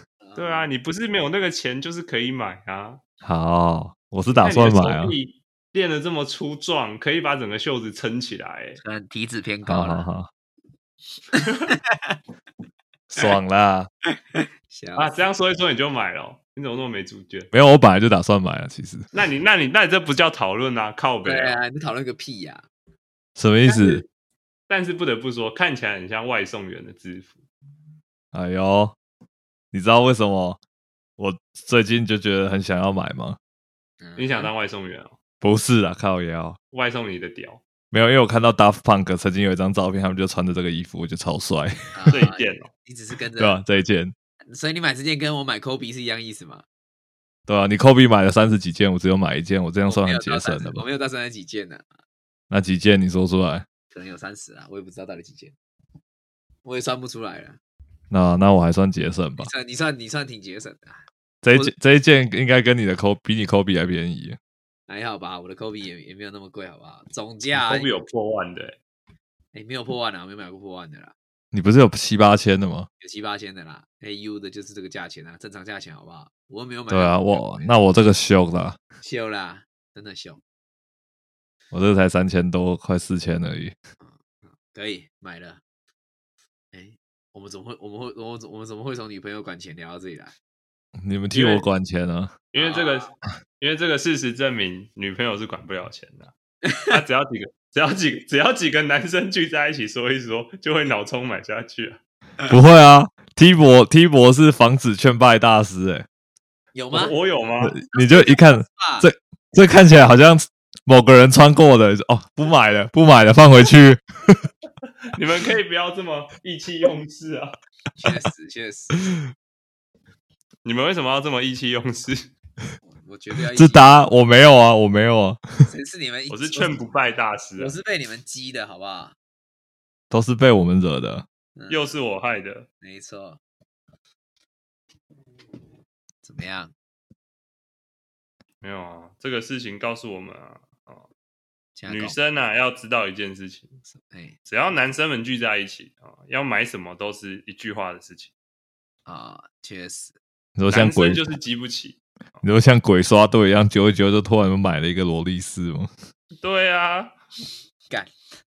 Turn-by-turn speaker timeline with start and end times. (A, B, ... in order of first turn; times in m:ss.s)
0:00.2-0:00.7 A
0:00.4-0:03.0 B
0:03.2-0:05.1 C
0:04.3-0:08.8 B
0:08.8-0:10.0 A
0:09.6-0:10.3 C
0:11.3-0:12.2 A
0:13.1-0:13.9 C
0:14.1-0:15.2 A
0:15.0-0:17.5 B
0:17.5-0:19.0 C
0:19.1-0:21.6 B
0:21.2-0:22.7 A
0:23.4-0:24.0 C
0:23.6-0:24.1 B
0:24.7-0:27.4 B
0:28.3-0:29.0 C
0:29.7-0:30.6 C
0:31.2-0:33.4 C
0:34.0-0:34.5 A
0:34.2-0:35.1 B
0:35.4-0:36.6 C
0:36.7-0:37.6 B
0:37.9-0:42.3 C
0:41.9-0:43.6 A
0:42.1-0:42.7 B
0:43.4-0:44.1 C
0:44.5-0:46.6 A
0:47.5-0:50.8 C
0:49.8-0:51.8 A
0:52.5-0:53.6 C
0:53.9-0:55.5 A
0:56.6-0:57.6 A
0:58.1-0:59.5 C
0:59.4-1:01.7 A
1:01.4-1:04.4 C
1:04.9-1:08.0 A
1:07.5-1:08.8 B
1:09.5-1:11.1 A
1:11.5-1:12.9 C
1:13.0-1:17.7 A
1:16.9-1:18.8 C
1:19.0-1:20.4 A
1:21.7-1:23.7 C
1:24.0-1:25.6 A
1:26.7-1:30.3 A
1:31.0-1:32.4 C
1:31.3-1:31.6 B
1:32.5-1:36.3 B
1:32.6-1:33.1 A
1:36.8-1:42.0 B
1:42.5-1:46.0 C
1:46.7-1:47.2 A
1:46.9-1:47.8 B
1:47.6-1:54.4 C
1:47.9-1:49.1 A
1:55.1-1:57.6 B
1:58.0-1:59.0 A
2:00.6-2:02.3 B
2:02.9-2:03.9 A
2:03.6-2:05.7 C
2:05.7-2:06.9 A
2:06.3-2:07.7 B
2:07.6-2:09.2 A
2:10.1-2:11.2 C
2:11.6-2:11.9 A
2:11.7-2:12.7 B
2:12.8-2:13.4 A
2:16.2-2:16.7 A
2:18.6-2:21.1 B
2:21.8-2:22.2 A
2:21.9-2:23.8 B
2:24.1-2:24.4 A
2:24.5-2:28.3 B
2:29.0-2:30.2 A
2:30.6-2:31.2 C
2:30.7-2:32.4 B
2:32.4-2:35.9 C
2:36.4-2:37.2 B